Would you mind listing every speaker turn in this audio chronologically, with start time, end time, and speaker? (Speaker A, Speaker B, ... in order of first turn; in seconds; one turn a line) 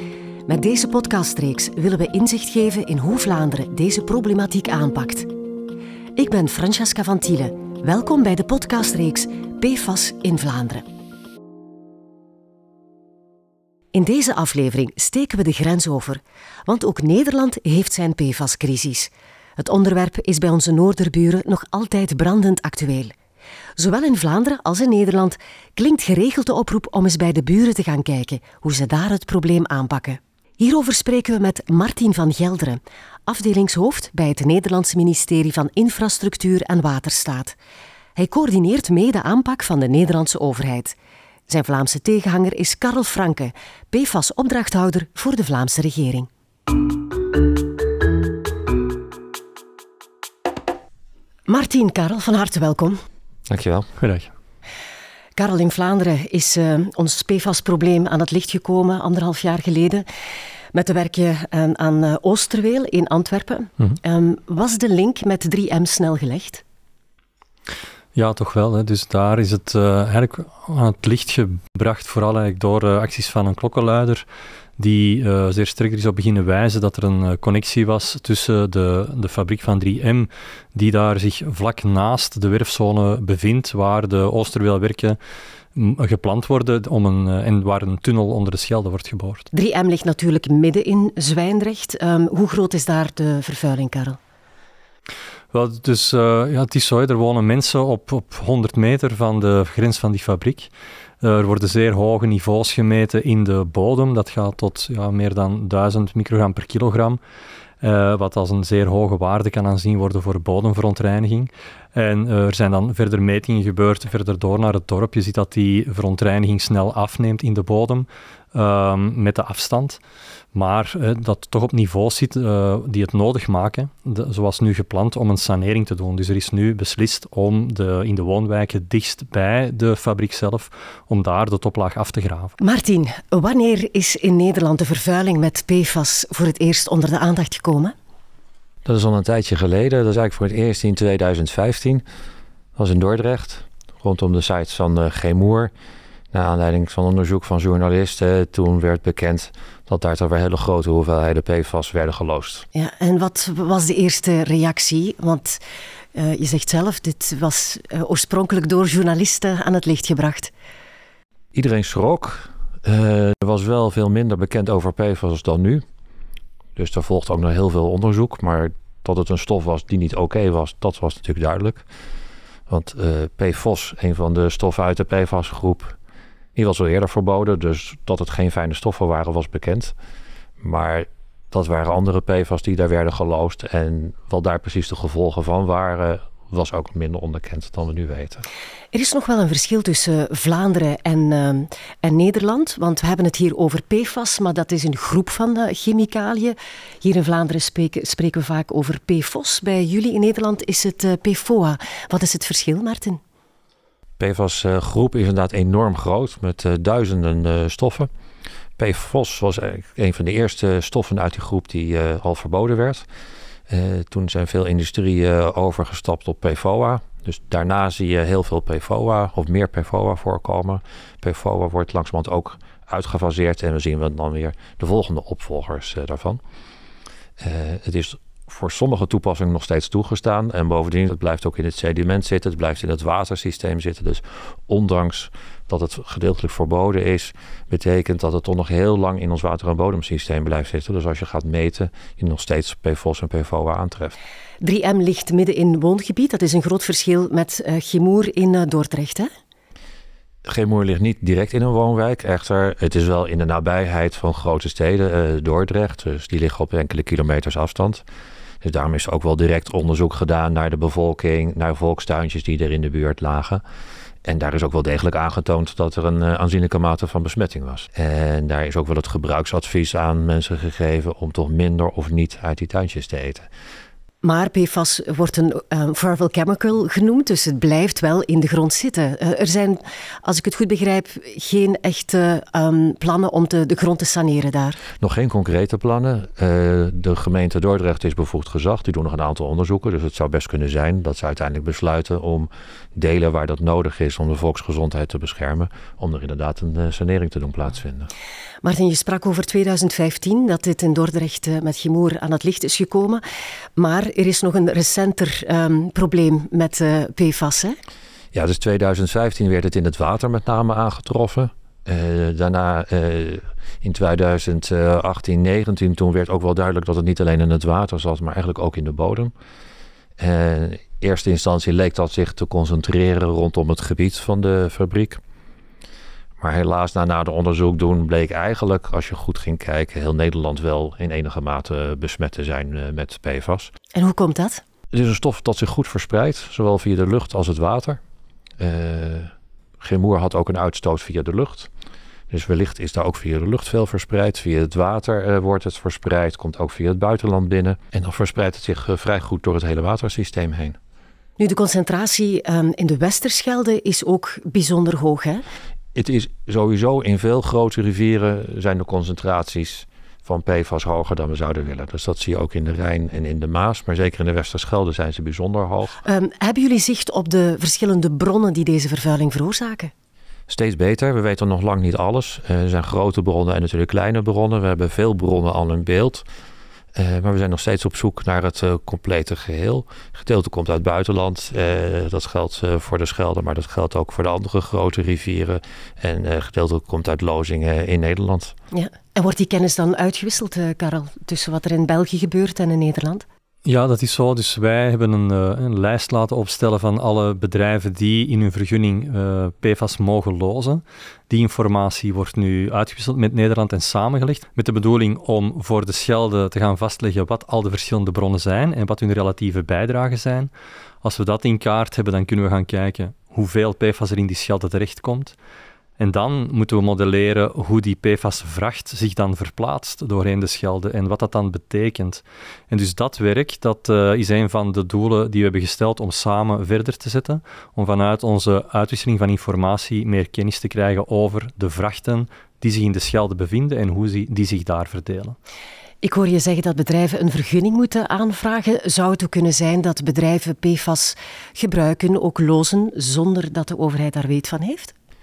Speaker A: 0.5-5.3
Speaker A: 6.2-10.9
Speaker A: 13.9-23.1
Speaker A: 23.8-37.5
Speaker A: 38.1-41.0
Speaker A: 41.5-46.3
Speaker A: 51.5-53.0
Speaker B: 53.5-53.9
Speaker C: 54.0-54.3
Speaker A: 55.4-60.0
Speaker A: 60.7-66.6
Speaker C: 68.1-74.2
Speaker C: 74.8-85.2
Speaker C: 85.7-89.5
Speaker A: 89.5-94.2
Speaker C: 95.5-100.7
Speaker C: 101.2-107.2
Speaker C: 107.8-120.0
Speaker C: 120.5-132.6
Speaker A: 132.6-137.9
Speaker B: 138.8-142.0
Speaker B: 142.8-145.7
Speaker B: 146.3-152.7
Speaker A: 152.7-155.6
Speaker A: 156.1-160.5
Speaker B: 161.5-165.8
Speaker B: 166.8-171.8
Speaker B: 172.7-176.0
Speaker B: 176.6-179.9
Speaker B: 180.6-188.4
Speaker A: 188.9-203.2
Speaker B: 204.2-208.1
Speaker B: 208.8-213.0
Speaker B: 213.7-226.4
Speaker B: 227.4-244.2
Speaker A: 244.6-249.3
Speaker B: 250.4-258.0
Speaker B: 258.6-263.6
Speaker B: 264.2-273.5
Speaker A: 274.2-284.8
Speaker B: 285.0-298.1
Speaker A: 298.6-303.2
Speaker A: 303.8-307.8
Speaker B: 308.3-319.3
Speaker B: 320.2-325.2
Speaker B: 326.4-333.7
Speaker A: 333.9-334.6
Speaker B: 334.9-338.0
Speaker B: 338.6-341.7
Speaker B: 342.3-350.8
Speaker A: 351.4-355.4
Speaker B: 355.9-366.0
Speaker A: 366.0-369.9
Speaker B: 370.5-376.2
Speaker B: 376.9-388.5
Speaker A: 388.7-393.2
Speaker C: 393.6-410.5
Speaker C: 411.0-415.3
Speaker C: 416.0-435.4
Speaker A: 436.0-444.9